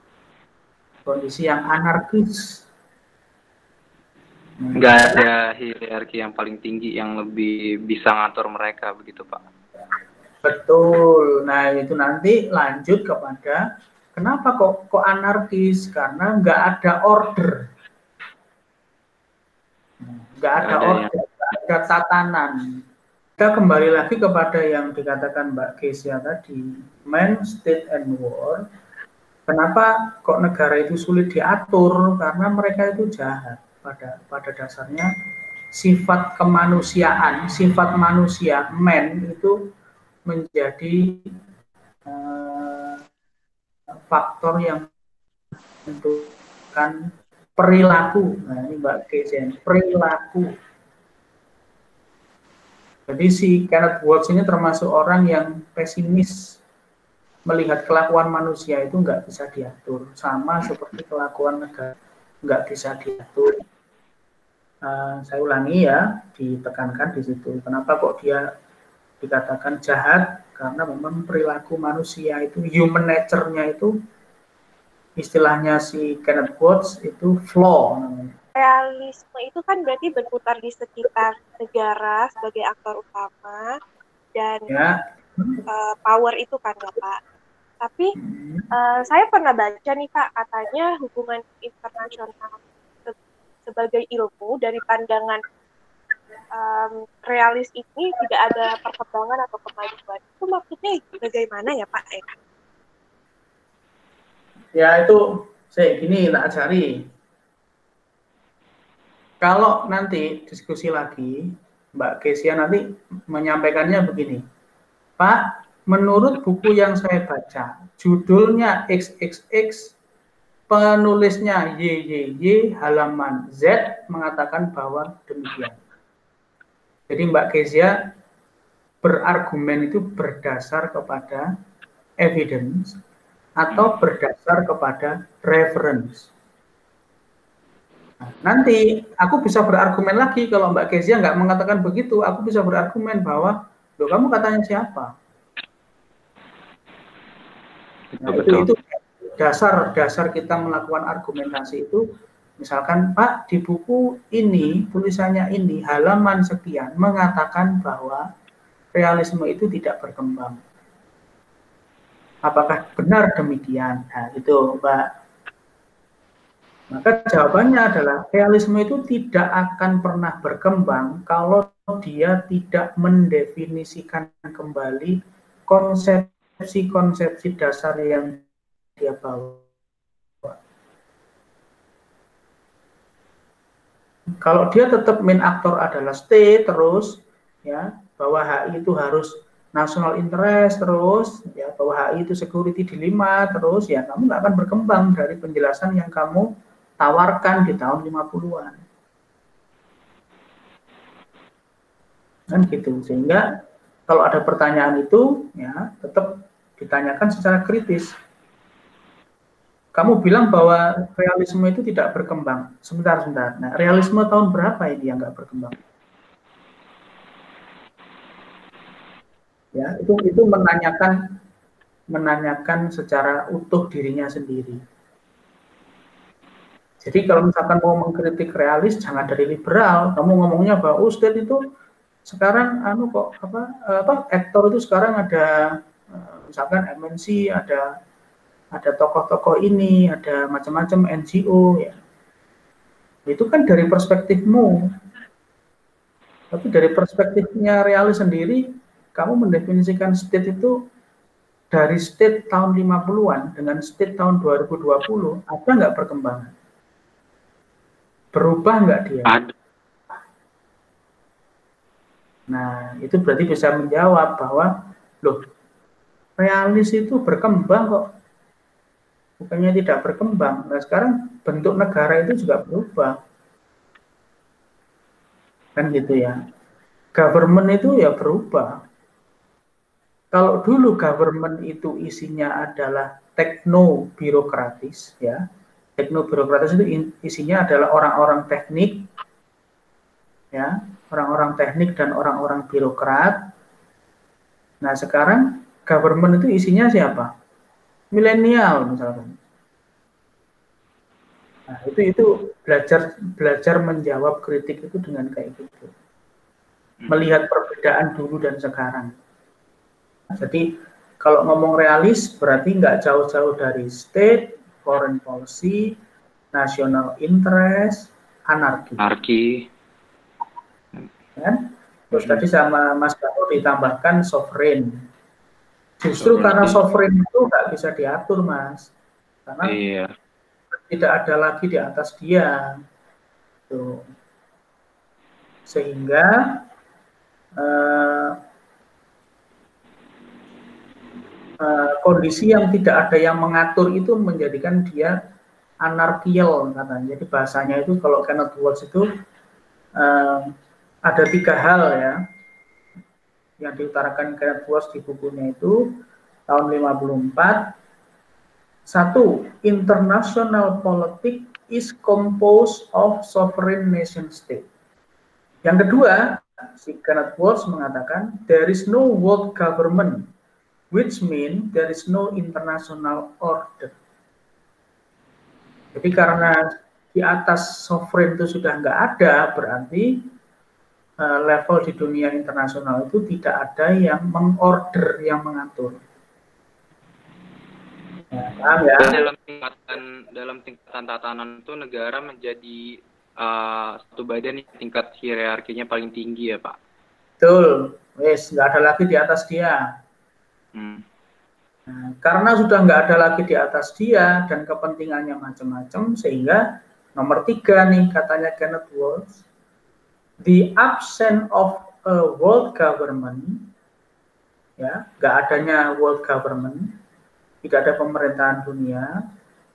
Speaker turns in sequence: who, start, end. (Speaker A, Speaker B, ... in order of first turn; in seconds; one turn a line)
Speaker A: 1.1-2.6
Speaker A: 4.6-5.2
Speaker B: 4.7-9.4
Speaker A: 10.4-13.6
Speaker A: 14.1-17.6
Speaker A: 20.0-22.6
Speaker B: 20.6-21.1
Speaker A: 23.4-28.6
Speaker A: 29.5-35.1
Speaker A: 35.7-39.5
Speaker A: 40.3-41.2
Speaker A: 42.1-43.0
Speaker A: 44.1-44.9
Speaker A: 45.8-50.5
Speaker A: 53.1-56.6
Speaker A: 57.5-63.5
Speaker A: 64.8-68.4
Speaker A: 69.2-73.9
Speaker A: 75.2-78.3
Speaker C: 78.5-83.7
Speaker C: 84.3-84.7
Speaker A: 84.7-85.6
Speaker C: 85.7-87.2
Speaker C: 87.8-88.1
Speaker A: 88.2-88.7
Speaker C: 88.7-95.4
Speaker C: 96.5-102.3
Speaker A: 104.8-106.9
Speaker A: 109.4-111.4
Speaker A: 112.0-114.4
Speaker A: 115.2-119.9
Speaker A: 120.7-125.8
Speaker A: 127.1-128.0
Speaker A: 129.0-131.4
Speaker A: 132.2-133.0
Speaker A: 133.6-136.3
Speaker A: 138.2-145.1
Speaker B: 148.1-148.7
Speaker A: 148.2-152.0
Speaker A: 152.6-158.2
Speaker A: 158.9-160.6
Speaker A: 162.4-165.1
Speaker A: 166.9-175.2
Speaker A: 175.7-178.4
Speaker A: 179.0-179.7
Speaker A: 184.4-196.5
Speaker A: 197.0-198.8
Speaker A: 202.5-203.4
Speaker A: 204.1-208.2
Speaker A: 209.9-215.8
Speaker A: 219.7-221.2
Speaker A: 222.1-224.8
Speaker A: 227.0-231.6
Speaker A: 232.3-235.5
Speaker A: 236.1-237.8
Speaker A: 238.7-242.0
Speaker A: 243.3-244.9
Speaker A: 246.5-248.6
Speaker A: 249.1-250.8
Speaker A: 251.7-256.5
Speaker A: 258.3-259.4
Speaker B: 259.2-259.5
Speaker A: 262.5-264.7
Speaker A: 266.4-268.0
Speaker A: 269.4-273.1
Speaker A: 275.8-276.4
Speaker A: 277.1-278.7
Speaker A: 280.3-285.4
Speaker A: 286.0-289.1
Speaker A: 290.5-293.4
Speaker A: 294.8-297.3
Speaker A: 298.1-299.3
Speaker A: 301.7-305.9
Speaker B: 307.0-307.3
Speaker A: 307.1-309.1
Speaker A: 310.4-310.6
Speaker A: 311.2-315.9
Speaker A: 316.5-319.0
Speaker B: 319.0-319.6
Speaker A: 321.4-325.0
Speaker B: 322.1-322.4
Speaker A: 326.0-328.9
Speaker B: 326.2-326.8
Speaker A: 329.4-329.8
Speaker B: 329.6-330.1
Speaker A: 330.8-332.5
Speaker A: 333.7-334.0
Speaker A: 335.7-336.6
Speaker A: 337.6-338.4
Speaker A: 341.6-345.1
Speaker A: 345.8-349.1
Speaker A: 350.0-350.5
Speaker A: 351.1-352.2
Speaker A: 353.6-355.9
Speaker A: 356.5-357.7
Speaker A: 358.9-364.6
Speaker A: 365.6-370.2
Speaker A: 370.9-373.9
Speaker A: 375.9-380.3
Speaker A: 381.2-385.9
Speaker A: 388.3-389.2
Speaker B: 389.0-396.8
Speaker A: 397.4-399.8
Speaker B: 400.7-401.0
Speaker A: 401.9-406.6
Speaker A: 407.1-409.4
Speaker A: 410.4-413.6
Speaker A: 414.8-416.9
Speaker A: 417.6-419.1